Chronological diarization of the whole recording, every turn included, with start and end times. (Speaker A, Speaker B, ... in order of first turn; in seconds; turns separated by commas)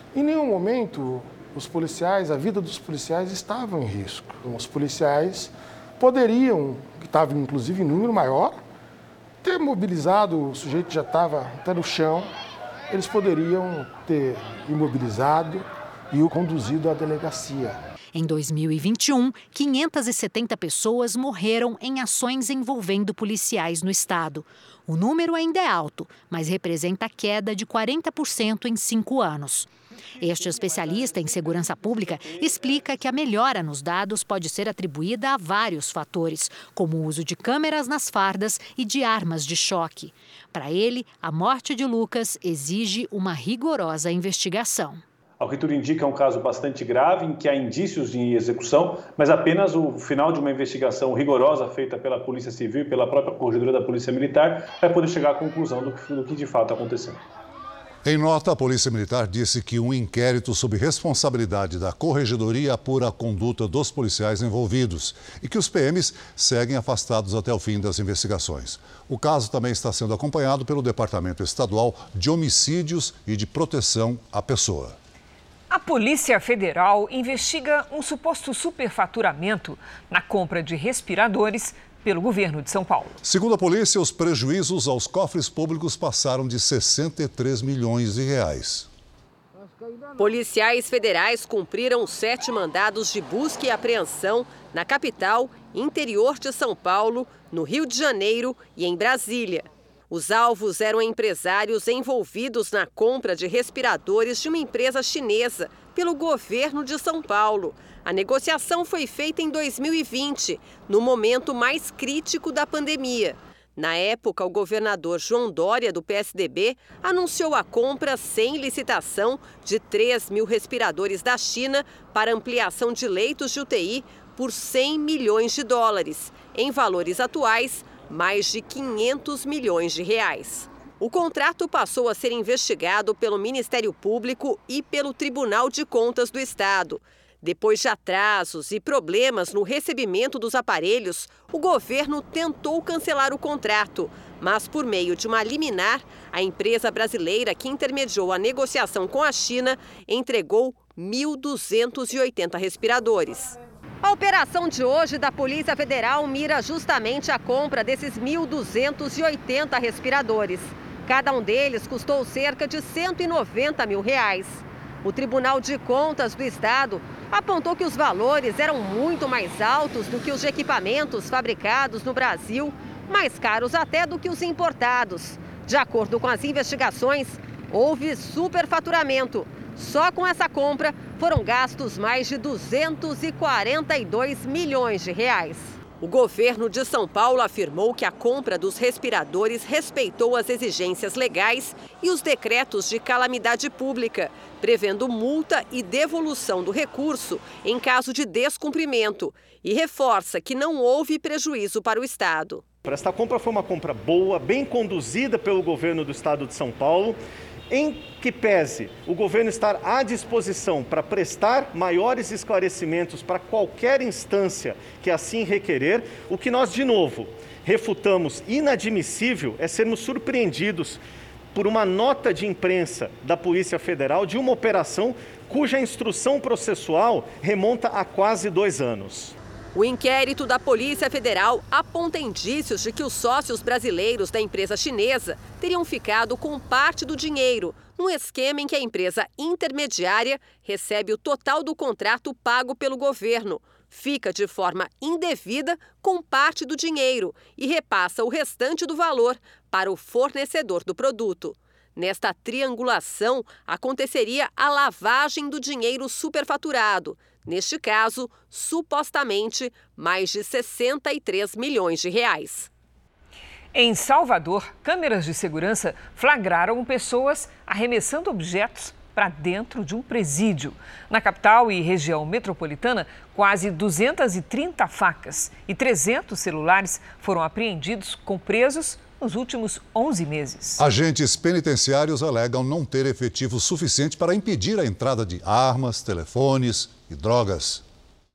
Speaker A: 0.1-8.6, Speaker A: 9.4-12.3, Speaker A: 12.9-17.8, Speaker B: 18.1-45.0, Speaker C: 45.4-57.2, Speaker D: 58.0-75.0, Speaker E: 75.7-83.2, Speaker D: 83.2-88.9, Speaker F: 90.2-202.6, Speaker G: 202.8-207.2, Speaker G: 207.7-221.0, Speaker G: 221.5-229.3, Speaker F: 229.8-262.7, Speaker E: 263.7-280.8, Speaker D: 280.8-287.8